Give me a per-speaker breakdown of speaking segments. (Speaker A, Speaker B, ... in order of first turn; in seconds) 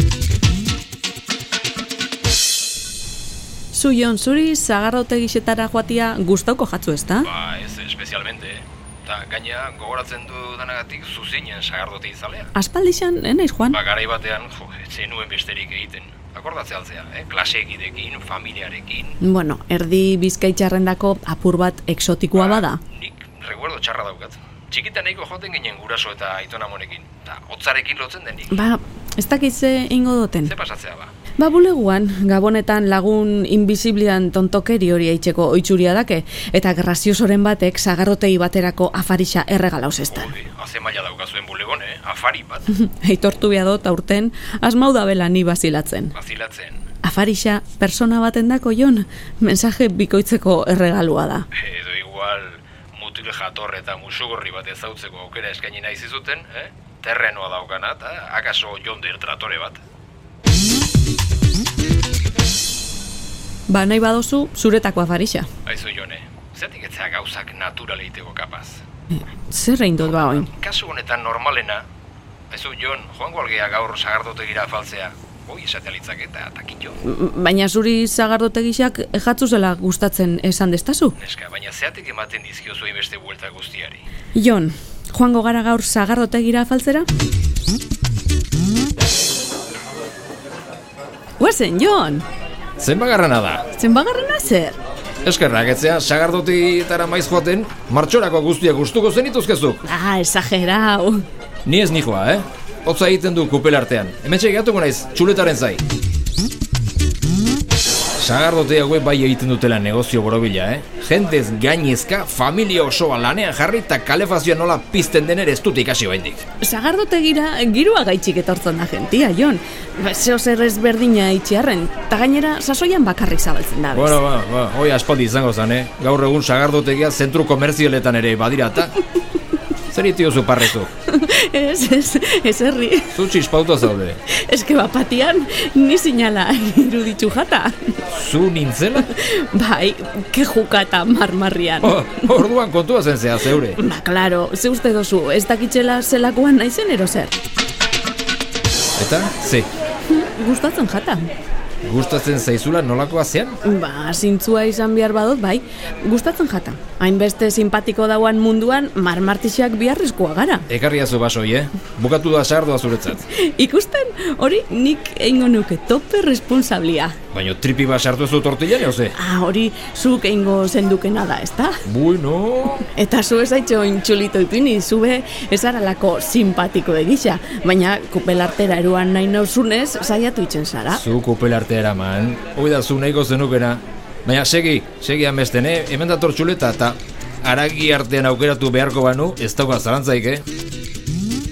Speaker A: 3.7-7.3, 12.6-13.8, 19.2-22.8, 28.5-30.5, 31.4-40.3, 42.7-46.1, 47.0-51.5, 63.7-65.5, 69.2-70.5, 77.0-81.2, 84.3-87.1, 91.4-92.3, 93.7-94.8, 99.8-101.2, 116.6-124.2, 131.1-133.2, 134.3-137.9, 139.1-142.0, 143.7-147.3, 150.1-151.3, 153.6-160.7, 163.3-167.2, 169.1-171.8, 172.9-181.0
Speaker B: 7.2-12.5, 13.7-19.2, 22.3-28.6, 30.4-31.1, 40.1-42.7, 46.1-46.8, 51.5-59.8, 65.7-68.8, 70.0-71.8, 72.5-77.0, 81.2-84.0, 92.8-93.7, 95.2-99.8, 101.7-105.8, 108.2-116.4, 123.9-129.0, 129.9-130.9, 133.1-134.2, 138.1-139.1, 141.8-143.8, 149.0-149.7, 151.8-153.6, 160.7-163.2, 167.3-169.2, 171.8-172.9, 180.9-190.4